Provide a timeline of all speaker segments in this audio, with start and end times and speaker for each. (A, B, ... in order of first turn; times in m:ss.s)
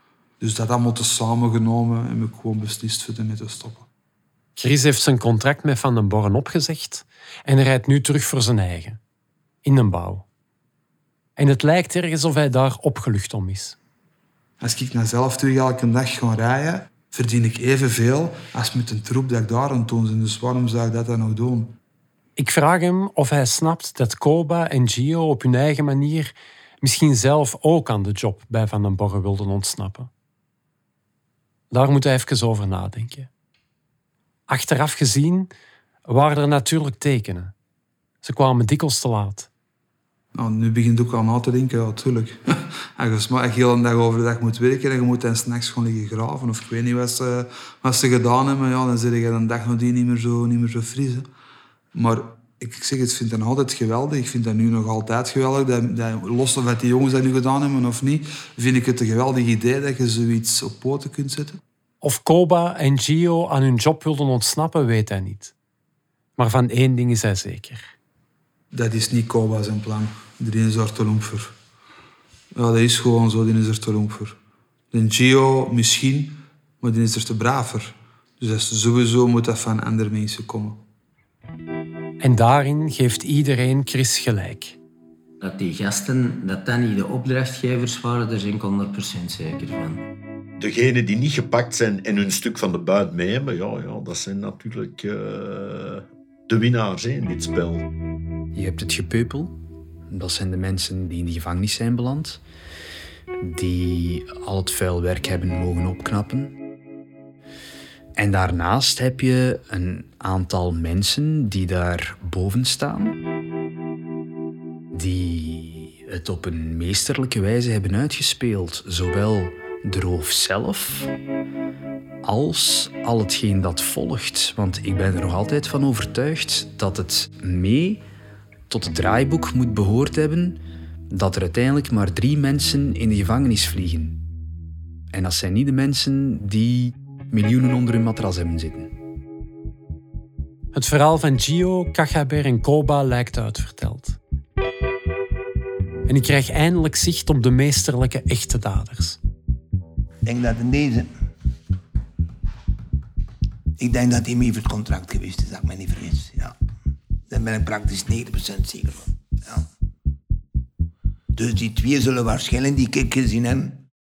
0:00.4-0:03.9 A
0:04.6-0:09.0 B
0:09.6-0:10.2 B
0:11.4-0:13.8 B
0:14.6-0:21.8 A
0:22.4-0:30.1 B
0:31.7-0:33.3 B
0:34.5-0:35.5 B
0:36.1-0:37.5 B
0:38.2-0:39.5 B
0:40.4-0:42.4 A
0:43.0-0:51.3 A
0:51.9-1:01.6 A
1:02.0-1:05.5 B
1:06.4-1:07.9 B
1:08.7-1:11.5 A
1:12.6-1:14.4 A
1:14.9-1:20.8 A
1:22.2-1:24.8 B
1:25.4-1:30.0 C
1:30.6-1:37.9 D
1:38.5-1:39.6 E
1:40.1-1:42.4 E
1:43.4-1:46.6 E
1:48.2-1:53.2 E
1:54.9-2:01.1 E
2:02.2-2:08.0 E
2:08.7-2:10.6 E
2:11.1-2:14.2 E
2:15.1-2:18.9 E
2:20.7-2:24.2 B
2:26.1-2:29.2 B
2:30.2-2:31.1 F
2:33.8-2:36.5 F
2:37.3-2:39.6 F
2:41.4-2:43.8 F